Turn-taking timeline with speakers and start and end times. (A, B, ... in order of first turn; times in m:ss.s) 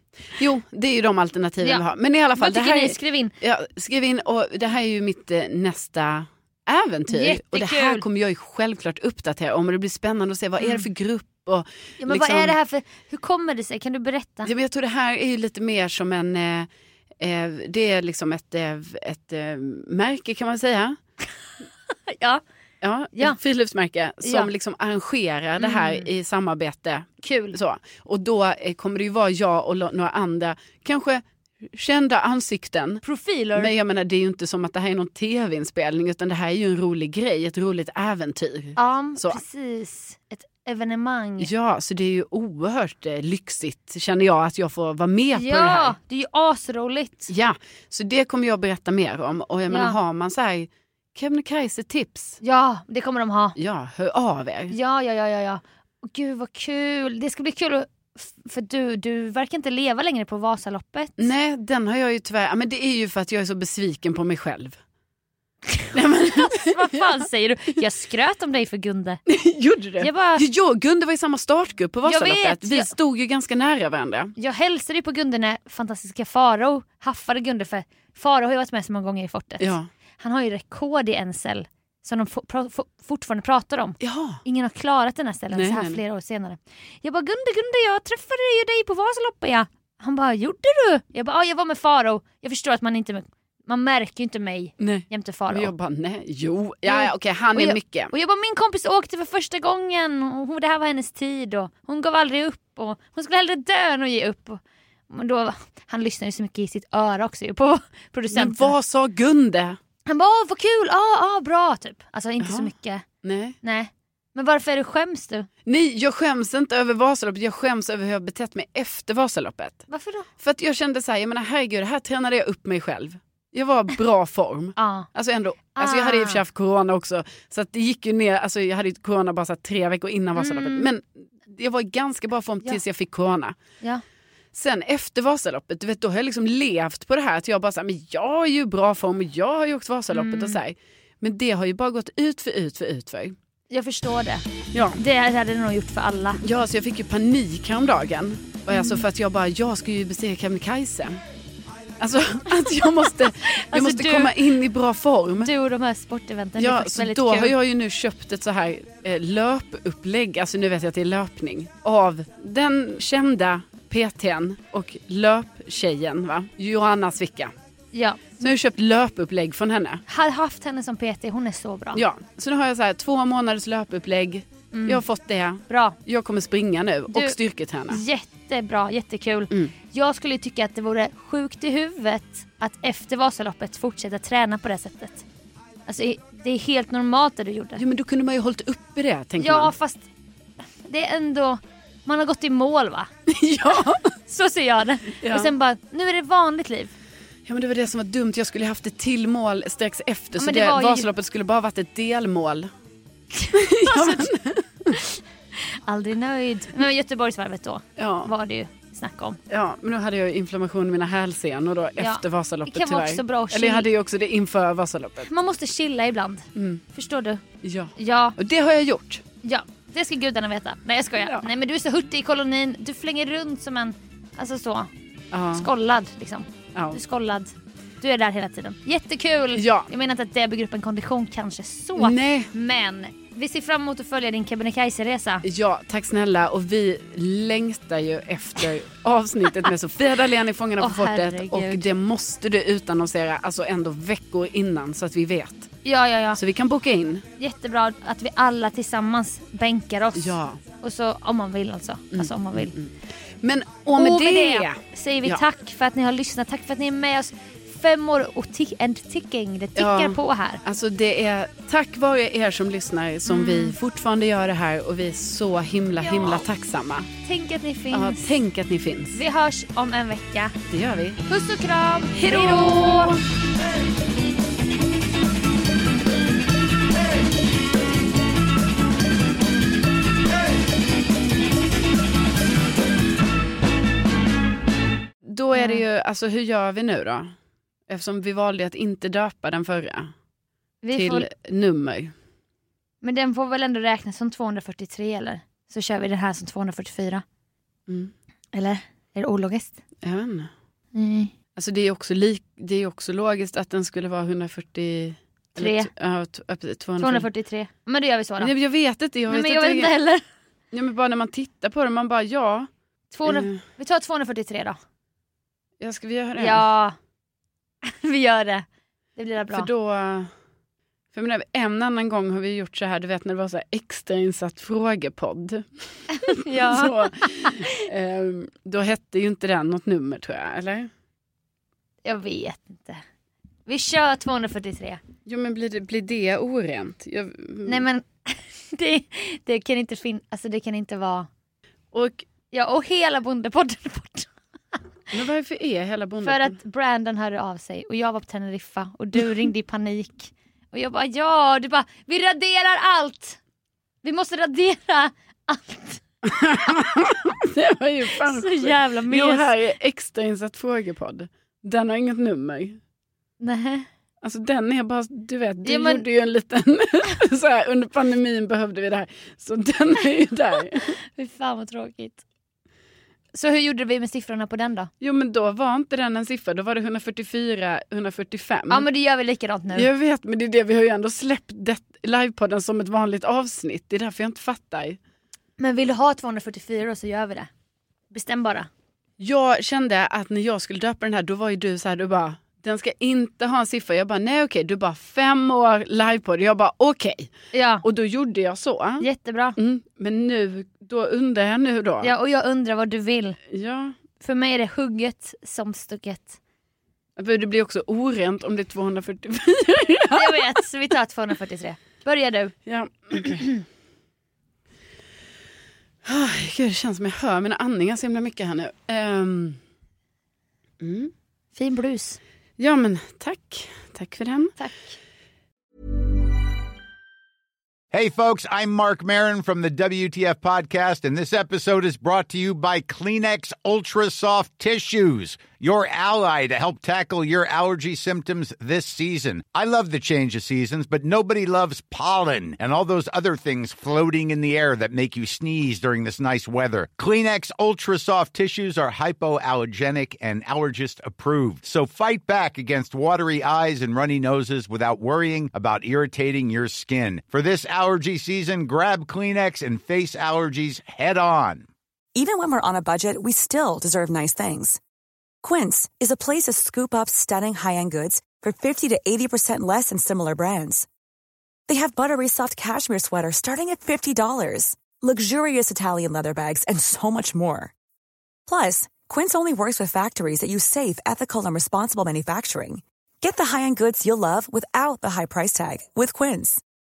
0:00.3-0:12.6 A
0:02.4-0:03.3 B
0:07.1-0:08.0 B
0:10.6-0:10.9 B
0:12.0-0:14.5 B
0:14.4-0:16.7 A
0:17.2-0:21.0 A
0:22.1-0:22.4 B
0:22.8-0:33.0 A
0:25.6-0:26.1 B
0:27.2-0:27.6 B
0:33.0-0:33.7 B
0:33.6-0:39.4 A
0:38.8-0:41.5 B
0:41.4-0:46.0 A
0:45.3-0:47.3 B
0:47.3-0:52.4 A
0:49.7-0:50.0 B
0:52.4-0:53.6 B
0:53.6-0:54.8 A
0:54.7-1:01.3 B
1:01.2-1:04.8 A
1:05.7-1:09.2 B
1:05.9-1:07.2 A
1:09.3-1:14.3 A
1:10.0-1:10.4 B
1:12.1-1:12.9 B
1:14.4-1:35.7 B
1:19.6-1:19.9 A
1:24.0-1:24.4 A
1:25.5-1:26.0 A
1:34.8-1:38.1 A
1:36.9-1:48.7 B
1:48.3-1:49.8 A
1:50.1-1:53.0 B
1:52.4-1:52.7 A
1:53.2-1:53.6 A
1:53.6-1:55.5 B
1:55.7-1:59.9 A
1:59.9-2:00.3 B
2:00.4-2:13.6 A
2:04.8-2:05.1 B
2:05.8-2:06.4 B
2:10.4-2:10.9 B
2:14.5-2:23.4 A
2:20.1-2:20.6 B
2:23.7-2:26.4 B
2:24.7-2:25.0 A
2:26.4-2:31.2 A
2:28.7-2:29.0 B
2:32.0-2:35.5 A
2:33.3-2:34.4 B
2:35.4-2:37.6 B
2:36.6-2:47.5 A
2:47.9-2:48.5 B
2:48.4-2:50.0 A
2:50.1-2:52.0 B
2:52.0-2:58.0 A
2:54.7-2:55.0 B
2:55.7-2:56.0 B
2:57.1-2:57.4 B
2:57.9-3:05.2 B
3:05.9-3:07.8 B
3:07.8-3:09.7 A
3:09.4-3:10.1 B
3:10.8-3:13.1 B
3:13.3-3:14.1 A
3:14.3-3:16.9 B
3:15.2-3:15.5 A
3:17.5-3:22.7 A
3:20.4-3:21.1 B
3:23.4-3:24.3 B
3:23.6-3:25.0 A
3:24.9-3:25.2 B
3:25.9-3:29.4 B
3:28.0-3:28.3 A
3:29.5-3:35.3 A
3:32.0-3:33.9 B
3:35.2-3:37.4 B
3:36.6-3:36.8 A
3:37.6-3:39.2 A
3:38.0-3:38.4 B
3:39.4-3:44.9 B
3:45.3-3:45.7 A
3:45.5-3:55.4 B
3:46.8-3:47.0 A
3:49.6-3:49.9 A
3:52.0-3:52.5 A
3:55.4-4:05.8 A
4:00.8-4:01.9 B
4:05.8-4:06.4 B
4:06.4-4:07.2 A
4:07.4-4:12.8 B
4:10.2-4:10.6 A
4:12.1-4:15.4 A
4:14.0-4:20.6 B
4:19.8-4:27.1 A
4:23.3-4:23.8 B
4:26.0-4:26.4 B
4:27.2-4:28.4 B
4:27.9-4:29.2 A
4:29.1-4:30.6 B
4:30.7-4:31.2 A
4:31.3-4:33.2 B
4:32.2-4:33.2 A
4:45.3-4:47.3 A
4:45.5-4:45.8 B
4:47.9-4:50.1 A
4:50.8-4:51.3 B
4:50.9-4:52.1 A
4:53.0-4:57.2 B
4:58.5-4:59.8 B
5:00.0-5:00.5 A
5:01.0-5:01.3 B
5:01.6-5:07.3 A
5:05.6-5:05.9 B
5:07.0-5:08.5 B
5:08.4-5:09.9 A
5:09.3-5:10.2 B
5:10.7-5:12.7 A
5:13.1-5:14.8 B
5:13.3-5:13.6 A
5:15.8-5:16.6 A
5:16.4-5:17.0 B
5:17.8-5:18.7 B
5:19.2-5:19.7 B
5:19.5-5:20.3 A
5:21.1-5:30.9 A
5:26.1-5:27.7 B
5:32.0-5:33.0 B
5:33.7-5:35.0 B
5:35.3-5:37.8 A
5:37.7-5:41.3 B
5:41.9-5:42.2 A
5:42.5-5:44.8 B
5:45.1-5:46.6 A
5:46.2-5:53.4 B
5:54.0-5:56.0 B
5:56.2-6:02.8 A
5:58.2-5:59.5 B
6:03.4-6:03.9 B
6:04.2-6:11.0 A
6:05.6-6:06.0 B
6:11.1-6:12.2 B
6:13.3-6:14.9 B
6:15.0-6:18.9 A
6:18.7-6:19.9 B
6:19.7-6:25.0 A
6:25.6-6:27.5 B
6:28.1-6:28.7 B
6:29.2-6:37.3 A
6:37.5-6:37.8 B
6:37.8-6:39.1 A
6:39.0-6:39.6 B
6:39.6-6:42.1 A
6:42.0-6:43.4 B
6:43.5-6:44.0 A
6:44.2-6:46.4 B
6:47.2-6:50.5 A
6:50.1-6:52.5 B
6:52.7-6:53.4 A
6:53.1-6:53.6 B
6:56.0-6:59.6 A
7:00.8-7:01.1 A
7:01.6-7:02.2 B
7:02.6-7:04.6 A
7:04.6-7:04.9 B
7:07.9-7:41.7 C
7:42.2-7:44.8 D
7:45.4-7:50.9 D
7:51.7-7:57.7 D
7:58.5-8:06.6 D